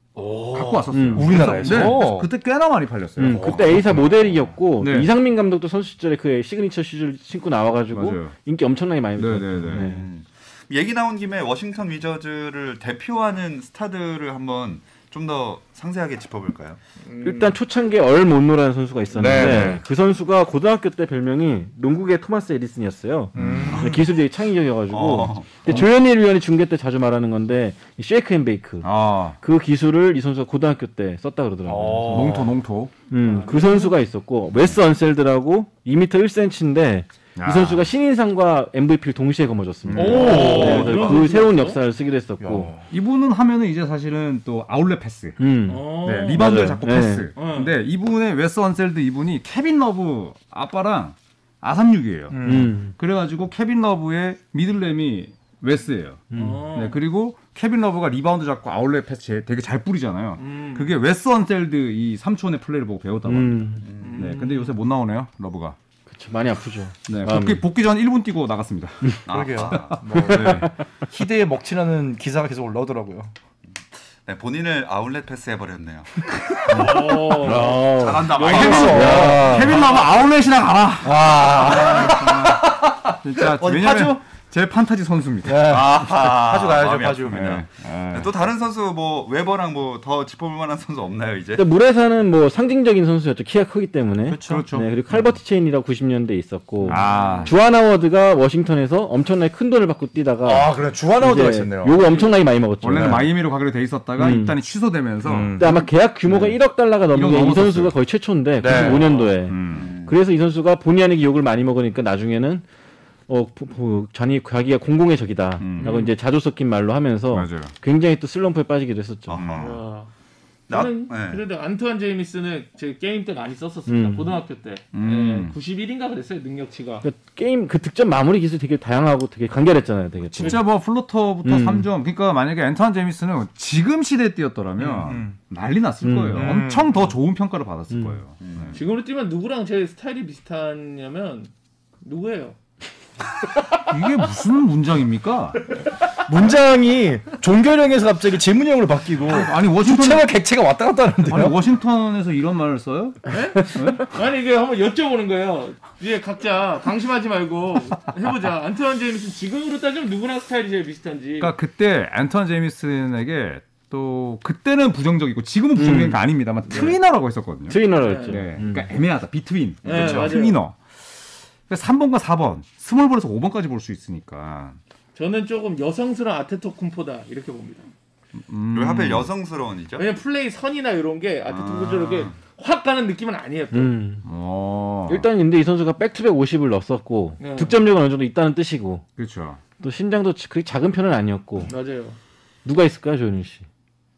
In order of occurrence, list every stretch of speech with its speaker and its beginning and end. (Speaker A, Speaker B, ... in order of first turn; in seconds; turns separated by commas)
Speaker A: 0.2-2.3, Speaker B: 0.5-3.7, Speaker C: 0.9-1.4, Speaker D: 1.4-1.9, Speaker C: 3.2-10.1, Speaker A: 3.3-3.6, Speaker E: 3.3-3.7, Speaker B: 4.8-5.1, Speaker B: 7.9-8.3, Speaker B: 9.2-9.9, Speaker E: 9.7-16.8, Speaker D: 17.0-17.6, Speaker C: 17.2-32.4, Speaker A: 19.1-19.8, Speaker B: 19.2-19.8, Speaker A: 23.4-24.0, Speaker E: 23.4-24.0, Speaker E: 24.9-25.9, Speaker B: 28.8-29.4, Speaker A: 31.7-32.5, Speaker B: 32.0-33.0, Speaker C: 33.1-42.7, Speaker D: 33.2-34.0, Speaker B: 37.4-37.9, Speaker B: 39.9-40.9, Speaker A: 40.0-41.2, Speaker D: 40.0-41.8, Speaker A: 42.4-42.8, Speaker B: 42.9-65.8, Speaker C: 45.4-47.3, Speaker D: 45.7-46.6, Speaker D: 47.4-47.8, Speaker A: 52.3-52.8, Speaker C: 52.4-52.9, Speaker C: 56.3-56.6, Speaker D: 56.3-57.0, Speaker D: 60.4-60.9, Speaker C: 63.3-63.9, Speaker E: 63.8-64.4, Speaker D: 64.0-64.8, Speaker C: 66.1-67.6, Speaker B: 67.1-69.2, Speaker E: 69.3-70.0, Speaker A: 69.3-73.3, Speaker B: 69.7-70.7, Speaker C: 70.3-70.7, Speaker E: 74.2-76.2, Speaker A: 76.7-79.8, Speaker D: 76.7-80.1, Speaker C: 77.4-79.7, Speaker E: 77.5-79.2, Speaker B: 78.4-82.6, Speaker A: 81.0-82.9, Speaker B: 83.2-85.7, Speaker E: 83.6-84.2, Speaker A: 85.4-87.6, Speaker E: 85.6-91.6, Speaker B: 87.3-88.3, Speaker C: 91.6-103.3, Speaker A: 94.3-94.7, Speaker B: 94.4-94.9, Speaker B: 96.9-97.5, Speaker E: 97.1-97.5, Speaker A: 100.4-102.0, Speaker D: 101.9-102.3, Speaker B: 102.8-105.7, Speaker A: 102.9-103.3, Speaker C: 104.2-104.5, Speaker A: 105.2-105.8, Speaker C: 105.6-112.6, Speaker B: 106.3-108.0, Speaker A: 108.6-109.0, Speaker D: 108.8-109.4, Speaker B: 109.5-109.9, Speaker E: 109.7-110.2, Speaker C: 113.3-119.4, Speaker B: 115.6-115.9, Speaker D: 115.8-116.1, Speaker B: 117.3-117.7, Speaker E: 119.3-119.8, Speaker B: 119.3-119.8, Speaker D: 119.6-120.1, Speaker E: 120.7-121.4, Speaker D: 120.7-127.0, Speaker C: 123.9-124.3, Speaker B: 124.9-125.5, Speaker C: 127.0-130.7, Speaker B: 130.4-138.8, Speaker C: 131.4-131.9, Speaker A: 134.8-135.3, Speaker C: 136.0-136.6, Speaker A: 136.3-137.1, Speaker C: 137.9-138.2, Speaker E: 138.4-138.8, Speaker D: 138.7-141.5, Speaker D: 142.0-142.6, Speaker B: 143.9-145.7, Speaker A: 146.2-151.6, Speaker B: 149.2-150.3, Speaker B: 151.2-154.1, Speaker D: 153.3-161.5, Speaker B: 161.4-171.0, Speaker C: 165.8-166.2, Speaker D: 166.7-167.0, Speaker C: 167.7-168.9, Speaker D: 168.0-168.4, Speaker D: 169.8-170.6, Speaker A: 169.9-170.3, Speaker B: 171.7-174.8, Speaker D: 175.2-177.9, Speaker B: 178.4-179.3, Speaker E: 178.7-180.1, Speaker D: 180.0-184.0, Speaker E: 181.5-182.4, Speaker C: 183.7-184.2, Speaker B: 184.2-185.3, Speaker C: 185.1-189.0, Speaker D: 187.4-187.8, Speaker B: 189.2-189.6, Speaker C: 189.8-191.7, Speaker D: 191.7-192.2, Speaker C: 192.7-193.7